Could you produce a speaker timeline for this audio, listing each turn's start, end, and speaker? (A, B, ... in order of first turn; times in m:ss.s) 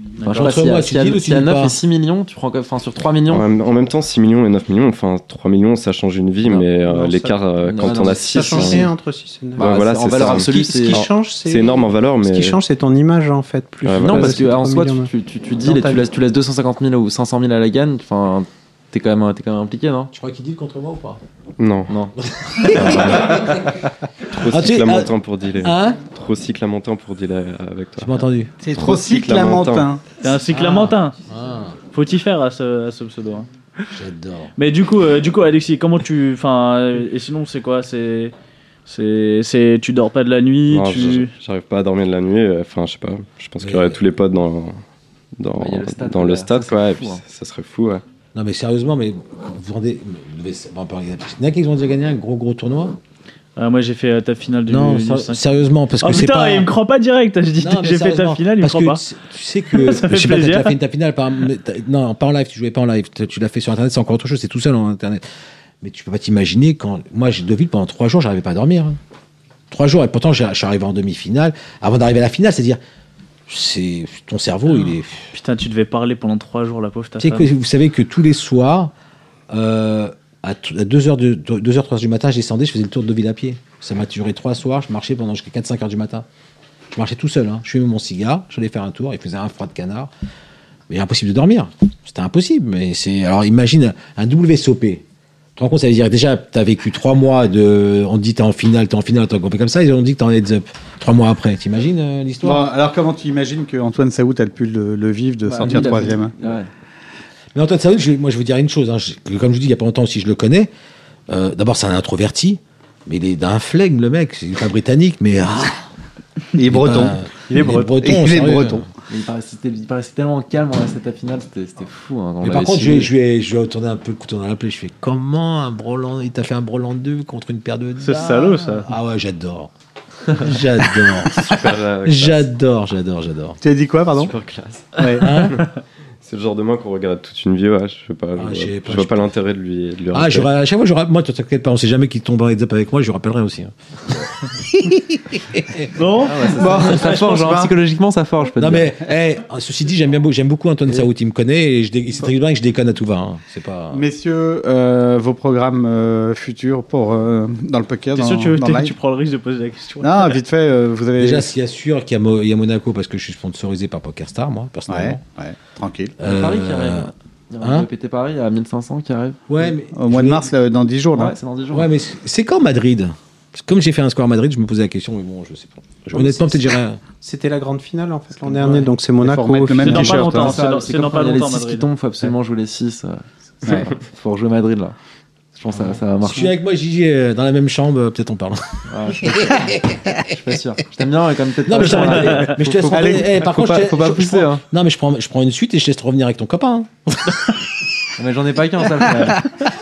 0:00.2-0:00.5 A
0:00.2-0:03.5 B
0:00.4-0:01.8 C
0:03.3-0:08.9 D
0:06.9-0:07.3 E
0:07.6-0:08.9 B
0:08.1-0:15.1 E
0:09.6-0:11.0 B
0:09.6-0:12.6 D
0:13.8-0:14.6 D
0:14.0-0:20.1 B
0:15.6-0:16.0 E
0:20.1-0:21.2 C
0:21.6-0:22.0 D
0:22.2-0:23.7 C
0:22.6-0:23.5 B
0:22.8-0:23.3 D
0:24.3-0:28.2 D
0:24.4-0:26.0 C
0:28.0-0:28.5 C
0:28.6-0:30.1 F
0:28.8-0:29.9 D
0:30.2-0:31.2 A
0:30.5-0:31.8 C
0:31.9-0:33.5 A
0:33.9-0:34.5 C
0:34.6-0:38.3 A
0:38.9-0:41.3 A
0:40.7-0:44.8 D
0:43.6-0:44.0 C
0:45.4-0:48.0 D
0:45.6-0:47.2 B
0:48.4-0:53.0 C
0:53.6-0:59.0 A
0:54.7-0:56.7 C
0:57.6-1:05.2 C
0:59.7-1:00.8 A
1:05.8-1:09.0 C
1:09.7-1:12.8 C
1:13.5-1:15.3 C
1:15.3-1:17.5 A
1:17.2-1:18.9 C
1:19.5-1:26.3 C
1:26.9-1:30.1 C
1:30.9-1:35.0 C
1:35.6-1:42.7 C
1:42.4-1:46.3 F
1:45.5-1:46.7 B
1:47.6-1:50.7 C
1:51.3-1:55.8 C
1:56.6-1:58.9 F
1:56.7-1:58.9 C
1:57.6-1:57.9 E
1:59.1-2:03.1 B
2:02.4-2:09.7 C
2:08.0-2:08.9 A
2:10.4-2:13.6 C
2:11.3-2:12.5 D
2:13.6-2:14.3 F
2:14.2-2:20.5 D
2:15.0-2:15.4 F
2:15.2-2:15.6 C
2:18.4-2:19.3 C
2:20.1-2:23.7 C
2:24.6-2:25.9 C
2:26.0-2:26.5 A
2:26.2-2:29.0 B
2:26.6-2:27.7 F
2:26.6-2:27.0 C
2:28.6-2:34.0 C
2:33.9-2:39.0 F
2:38.2-2:40.4 A
2:40.0-2:41.5 F
2:41.2-2:45.2 C
2:44.9-2:46.2 F
2:46.2-2:47.9 C
2:46.2-2:49.4 B
2:49.5-2:50.5 C
2:49.9-2:51.4 F
2:51.1-2:51.9 B
2:51.7-2:57.0 C
2:57.2-3:00.2 E
2:58.5-3:00.6 F
2:59.8-3:01.9 A
3:00.0-3:05.0 B
3:03.6-3:03.9 F
3:05.6-3:06.5 B
3:06.2-3:10.1 C
3:08.9-3:14.6 B
3:11.7-3:17.5 C
3:12.9-3:13.3 F
3:18.2-3:19.4 B